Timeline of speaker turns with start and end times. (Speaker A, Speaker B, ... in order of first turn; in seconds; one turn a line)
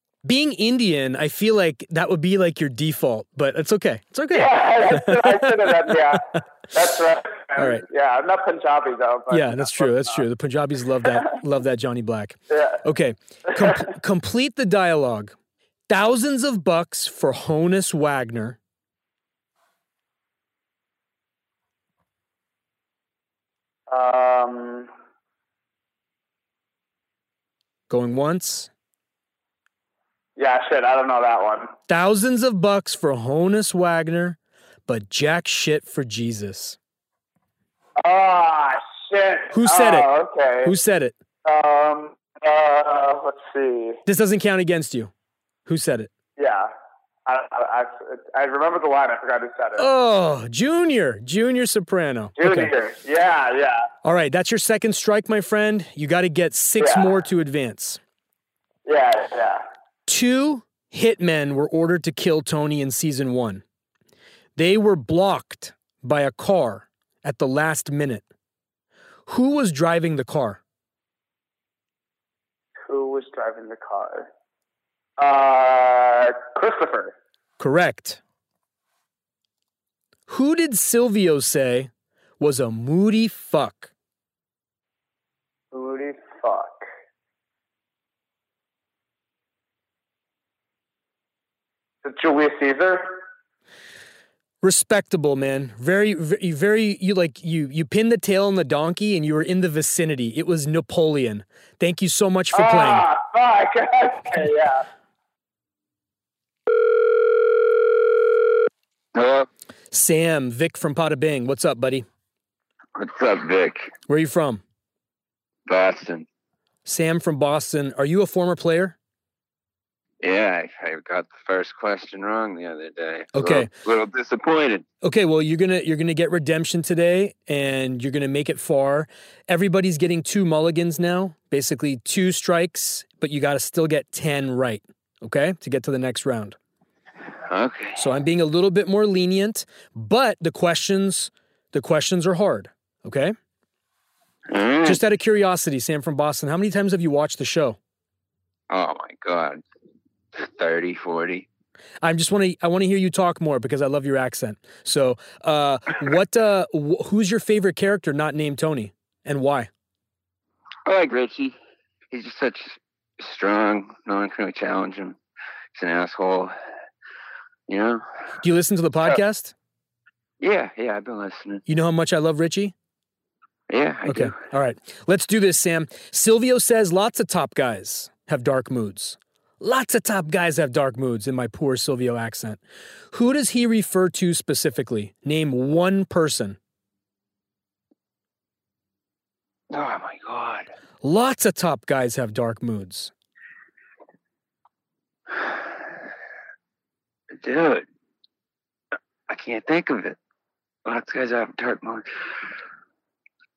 Speaker A: 0.2-6.0
Speaker B: 4.3-10.2
Speaker A: 7.6-7.8
Speaker A: 9.3-15.3
Speaker B: 12.5-12.8
Speaker A: 15.9-18.6
Speaker B: 23.9-24.9
Speaker A: 27.9-28.7
Speaker B: 30.4-31.7
Speaker A: 31.9-36.8
Speaker B: 38.0-40.7
Speaker A: 39.5-40.1
Speaker A: 40.6-41.1
Speaker B: 41.5-44.0
Speaker A: 44.1-45.1
Speaker A: 45.7-46.1
Speaker B: 46.4-46.7
Speaker B: 47.3-49.9
Speaker A: 49.8-52.7
Speaker B: 52.4-53.9
Speaker A: 54.0-58.0
Speaker B: 56.8-57.1
Speaker B: 58.9-59.6
Speaker A: 60.1-63.6
Speaker A: 64.6-68.3
Speaker A: 69.3-70.6
Speaker B: 72.9-74.3
Speaker B: 75.2-77.1
Speaker A: 77.6-78.2
Speaker A: 80.3-83.9
Speaker B: 85.7-86.8
Speaker B: 92.0-93.2
Speaker A: 94.6-103.0
Speaker B: 102.5-104.8
Speaker C: 109.1-109.5
Speaker A: 109.9-112.1
Speaker C: 113.0-113.9
Speaker A: 114.1-114.6
Speaker C: 115.7-116.3
Speaker A: 116.9-119.0
Speaker C: 120.2-124.8
Speaker A: 123.3-123.7
Speaker A: 125.0-136.6
Speaker C: 137.5-138.0
Speaker A: 138.0-143.3
Speaker C: 144.5-145.0
Speaker A: 144.8-147.8
Speaker C: 148.7-149.6
Speaker C: 150.4-151.5
Speaker A: 152.0-159.7
Speaker C: 160.8-161.6
Speaker C: 162.1-165.2
Speaker C: 165.7-166.6
Speaker C: 167.7-168.0
Speaker A: 168.4-169.5
Speaker C: 170.4-171.6
Speaker A: 171.7-172.7
Speaker C: 173.7-174.4
Speaker A: 174.1-182.6
Speaker A: 183.1-186.6
Speaker C: 189.7-190.7
Speaker A: 191.0-193.1
Speaker C: 195.3-195.6
Speaker C: 197.3-197.9
Speaker C: 199.3-200.2
Speaker C: 200.8-202.1